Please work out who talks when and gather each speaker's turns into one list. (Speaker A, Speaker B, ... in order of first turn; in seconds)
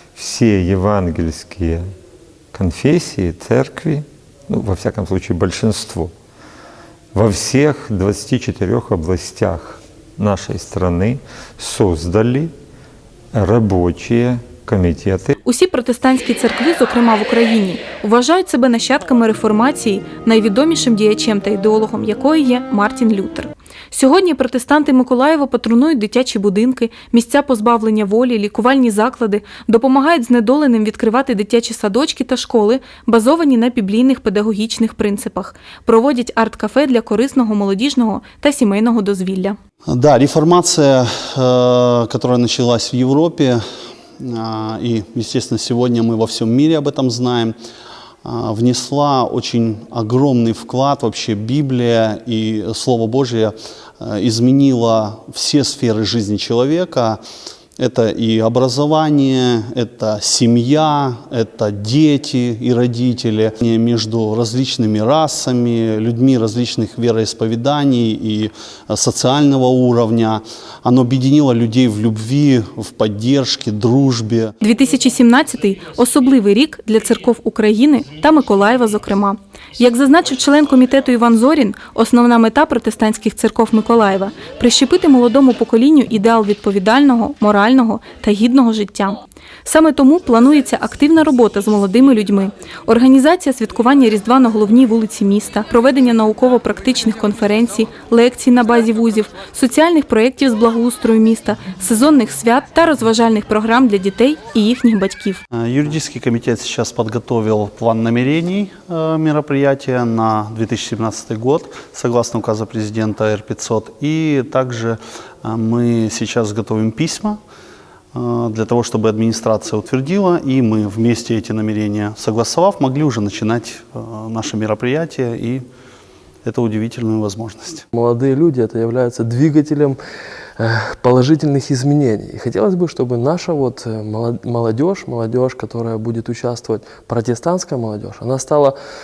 Speaker A: 0.1-1.8, 2.5-6.1, 7.1-12.5, 13.3-15.3
Speaker B: 15.4-39.6, 74.6-105.4
Speaker C: 39.9-43.6, 44.2-47.5, 48.2-57.2, 57.8-74.5, 105.5-117.4, 118.1-125.6, 126.4-127.8
Speaker D: 127.9-130.0, 130.6-138.8